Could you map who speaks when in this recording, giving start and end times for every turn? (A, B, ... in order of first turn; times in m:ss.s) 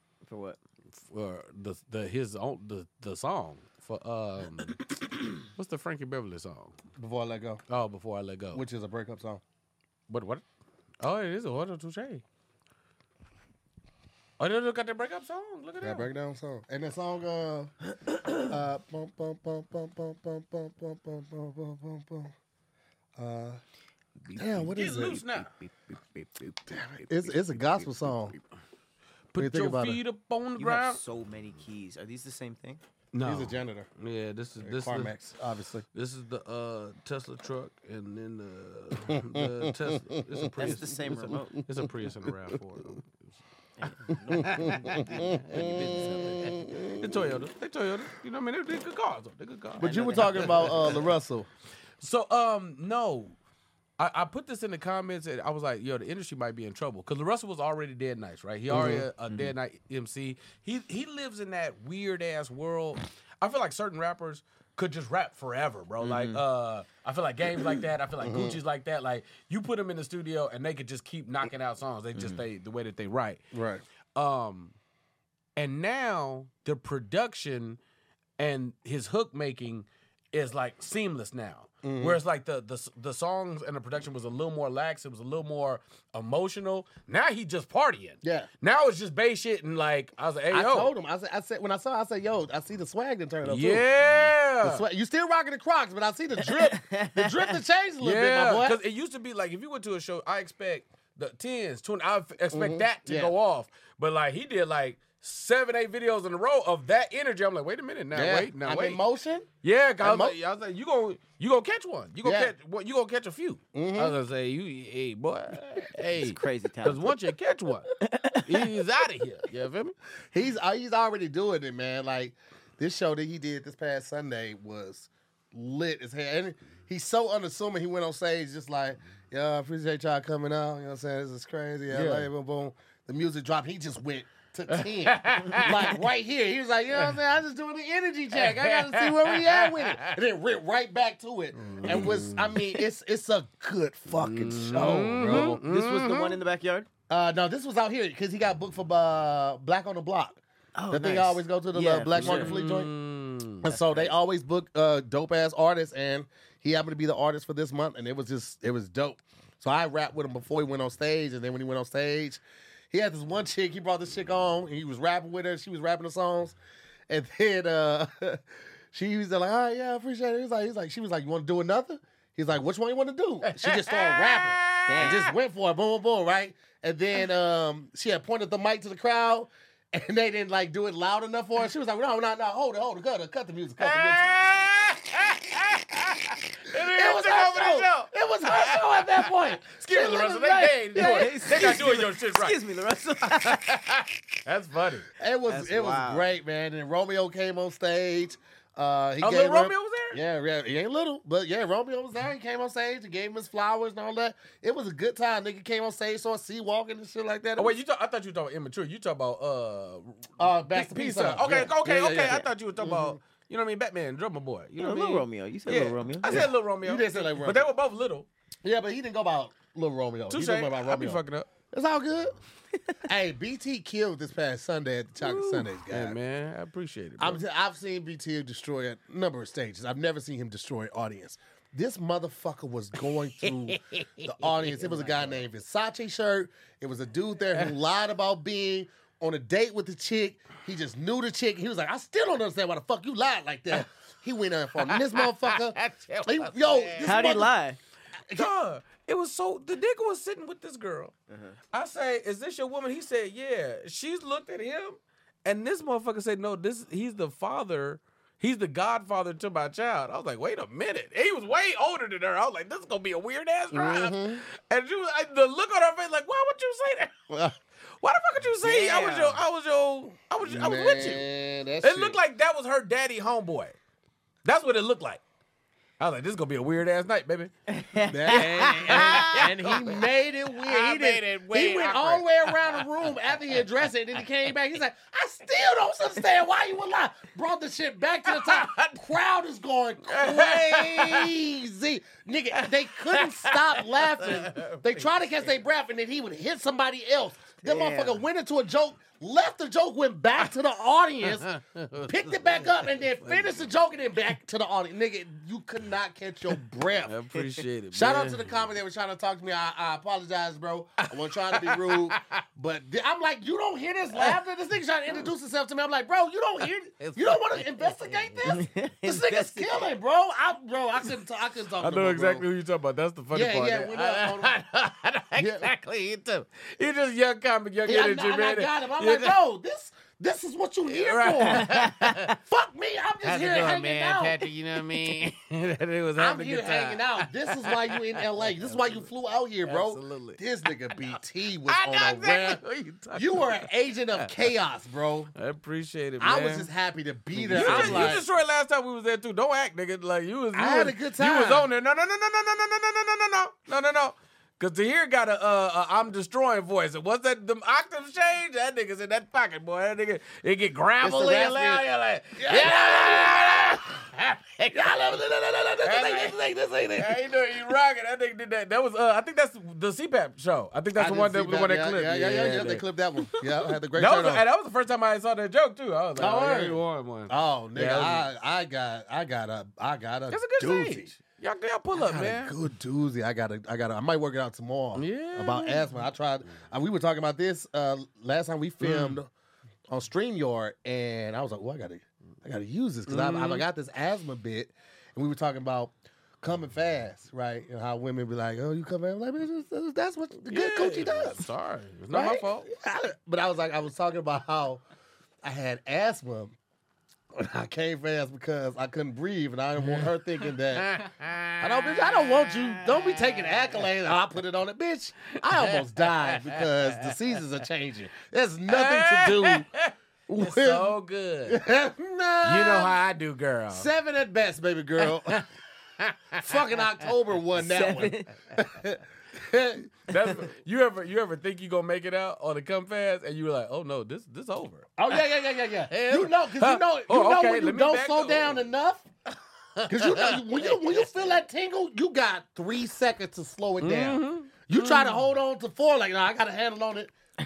0:00.2-0:00.6 A
0:01.1-0:06.7 B
0:07.0-0:07.6 C
0:07.7-0:08.6 B
0:08.5-0:09.4 C
0:10.1-0:10.4 B
0:11.0-0:12.2 B
0:14.4-0:16.1 B
0:15.8-0:17.8 C
0:18.3-0:22.3 C
0:23.2-0:23.6 C
0:24.2-0:28.4 A
0:24.4-0:25.2 C
0:24.8-0:25.5 B
0:26.7-0:28.4 C
0:29.3-0:31.0 B
0:29.4-0:30.0 C
0:30.6-0:32.8 A
0:33.1-0:35.2 B
0:33.2-0:33.9 C
0:34.6-0:35.9 C
0:35.9-0:43.4 B
0:39.1-0:40.7 C
0:40.6-0:41.6 A
0:41.7-0:42.3 C
0:43.8-0:46.7 A
0:44.1-0:45.8 B
0:44.3-0:47.4 C
0:46.9-0:50.9 B
0:49.8-0:51.0 A
0:49.8-0:51.5 C
0:52.0-0:53.4 B
0:54.0-1:13.4 B
0:58.7-0:59.5 A
0:58.7-0:59.0 C
1:06.0-1:06.4 A
1:08.2-1:08.6 C
1:12.2-1:12.4 A
1:13.5-1:13.8 C
1:14.2-1:14.8 B
1:15.6-1:17.8 B
1:18.4-1:30.9 B
1:21.8-1:22.2 C
1:28.2-1:28.5 C
1:30.5-1:33.9 C
1:33.4-1:34.8 B
1:34.6-1:38.8 C
1:36.5-1:37.6 A
1:38.0-1:49.0 B
1:42.5-1:43.3 C
1:48.1-1:49.5 C
1:49.6-1:57.9 B
1:50.0-1:50.4 C
1:52.2-1:52.5 C
1:53.7-1:54.2 C
1:56.2-1:57.1 A
1:58.0-1:58.7 A
1:58.4-1:59.9 B
2:00.3-2:25.6 C
2:11.9-2:12.3 B
2:14.7-2:16.0 B
2:18.4-2:20.2 B
2:21.6-2:22.6 B
2:24.2-2:26.4 B
2:25.3-2:26.9 A
2:27.1-2:32.9 C
2:30.8-2:32.5 A
2:32.2-2:33.7 B
2:33.6-2:46.6 C
2:33.8-2:34.1 A
2:47.1-3:04.3 C
2:53.4-2:55.2 B
2:54.9-2:55.2 A
3:03.8-3:09.1 B
3:06.7-3:11.4 C
3:09.6-3:12.6 B
3:11.0-3:13.8 A
3:13.2-3:15.1 B
3:15.2-3:27.8 C
3:15.5-3:16.2 A
3:19.2-3:20.2 B
3:27.6-3:38.3 B
3:30.4-3:33.2 C
3:34.8-3:36.4 A
3:36.3-3:37.7 C
3:38.6-3:42.4 C
3:40.3-3:41.5 B
3:43.0-3:46.2 C
3:45.2-3:45.7 A
3:45.9-3:47.4 B
3:47.2-4:07.5 C
3:53.4-3:54.9 B
4:04.8-4:07.4 B
4:07.0-4:07.8 A
4:08.3-4:11.1 B
4:11.3-4:11.6 A
4:11.7-4:27.2 B
4:23.7-4:24.4 C
4:27.3-4:27.6 C
4:28.0-4:31.3 B
4:28.6-4:29.4 A
4:30.4-4:32.2 C
4:31.8-4:33.8 B
4:34.4-4:35.2 B
4:36.0-4:37.5 B
4:37.7-4:39.5 A
4:38.1-5:01.5 C
4:38.3-4:42.8 B
4:48.3-4:49.0 B
4:50.1-4:51.3 B
4:52.5-4:54.9 B
4:57.6-4:58.2 A
5:01.2-5:03.4 B
5:02.0-5:07.2 C
5:07.0-5:08.5 B
5:07.9-5:22.5 C
5:11.5-5:12.4 B
5:17.0-5:18.5 B
5:18.4-5:19.9 A
5:21.8-5:29.4 B
5:23.3-5:24.6 C
5:25.4-5:25.7 C
5:27.9-5:34.4 C
5:30.8-5:32.4 B
5:33.2-5:39.0 B
5:36.2-5:42.6 C
5:39.6-5:40.4 B
5:40.9-5:44.3 B
5:43.2-5:45.3 C
5:45.4-5:46.7 B
5:46.2-5:48.2 C
5:47.4-5:48.1 A
5:47.5-6:05.0 B
5:50.6-5:51.7 C
6:01.0-6:03.8 C
6:04.7-6:07.2 C
6:05.8-6:06.4 B
6:07.0-6:12.8 B
6:11.0-6:14.5 C
6:14.0-6:18.3 B
6:16.2-6:21.1 C
6:20.3-6:22.5 B
6:21.9-6:29.3 C
6:25.0-6:25.9 B
6:28.8-6:29.2 B
6:29.9-6:41.4 C
6:33.1-6:33.6 B
6:40.5-6:42.7 B
6:42.1-6:44.8 C
6:45.4-6:46.6 C
6:47.3-6:51.1 C
6:49.8-6:53.7 B
6:51.6-6:59.7 C
6:55.6-6:57.1 B
6:58.7-7:01.6 B
7:00.3-7:00.9 C
7:01.5-7:03.0 C
7:02.4-7:03.9 B
7:03.7-7:05.4 C
7:06.0-7:06.6 B
7:06.4-7:09.9 C
7:07.6-7:08.3 A
7:10.1-7:15.2 B
7:15.0-7:19.1 C
7:15.9-7:18.6 B
7:19.8-7:20.8 B
7:19.9-7:27.1 C
7:23.8-7:25.2 B